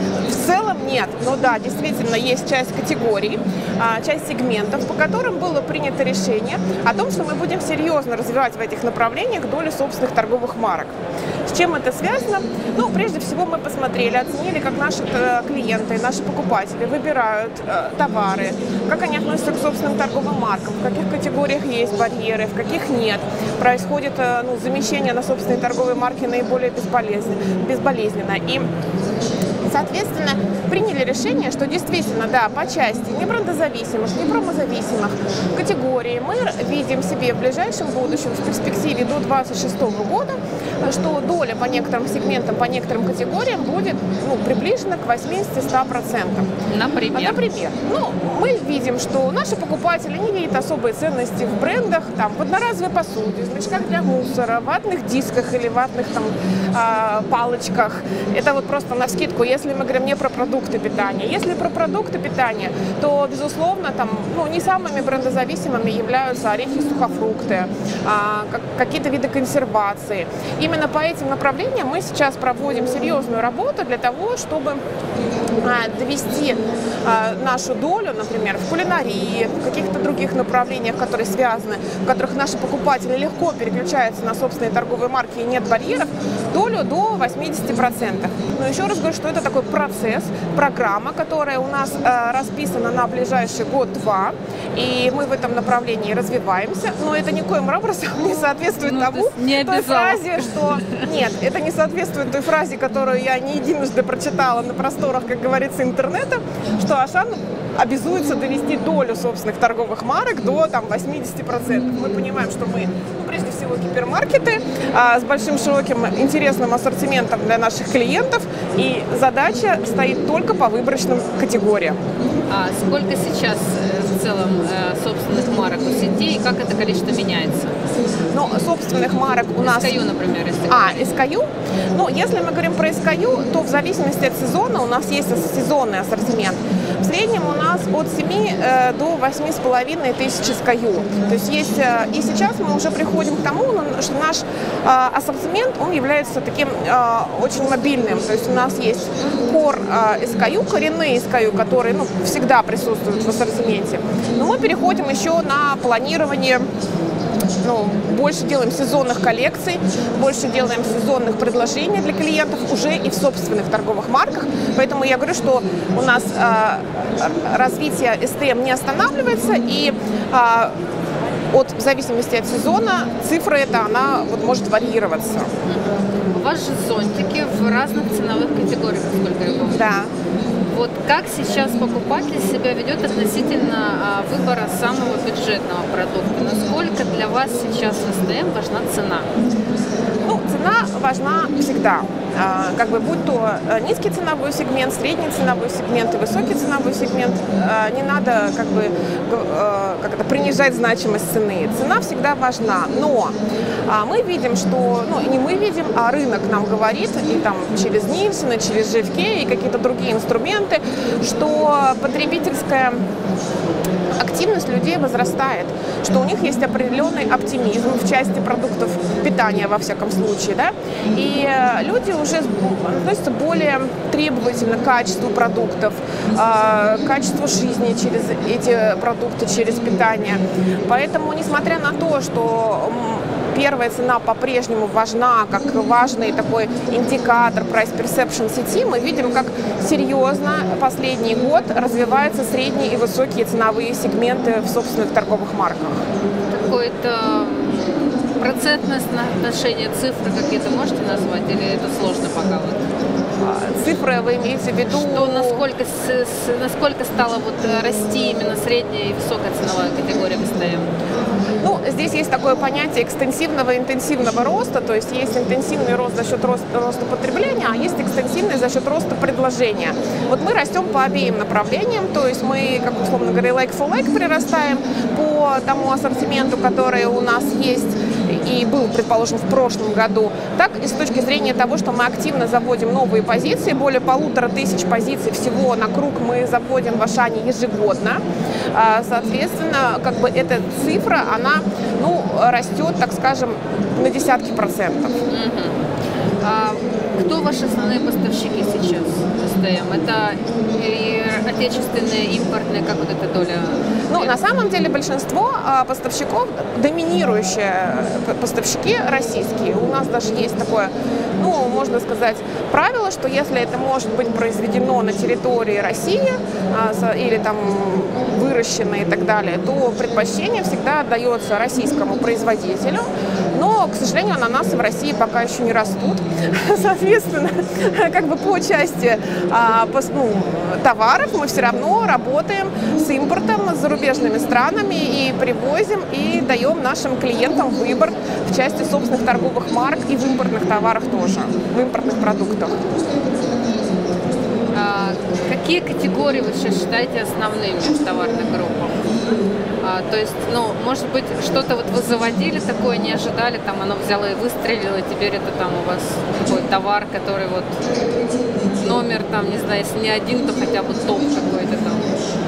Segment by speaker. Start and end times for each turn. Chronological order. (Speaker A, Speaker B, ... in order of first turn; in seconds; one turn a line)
Speaker A: 0.3-10.9
Speaker A: 11.5-28.7
Speaker A: 29.7-46.5
Speaker B: 46.7-47.4
Speaker A: 47.1-74.8
Speaker A: 75.6-122.0
Speaker B: 98.8-101.1
Speaker B: 122.5-127.8
Speaker A: 128.3-130.0
Speaker B: 129.6-131.2
Speaker A: 130.7-156.7
Speaker A: 157.6-170.7
Speaker A: 171.5-175.5
Speaker B: 175.7-179.8
Speaker A: 179.7-180.1
Speaker B: 180.7-189.3
Speaker A: 190.2-213.0
Speaker A: 214.2-246.0
Speaker B: 246.5-252.9
Speaker A: 253.4-255.7
Speaker B: 254.9-260.9
Speaker A: 261.6-288.2
Speaker A: 288.7-295.2
Speaker B: 295.3-295.8
Speaker B: 296.4-304.4
Speaker A: 304.1-342.8
Speaker B: 344.7-349.1
Speaker B: 349.8-357.8
Speaker B: 358.7-362.1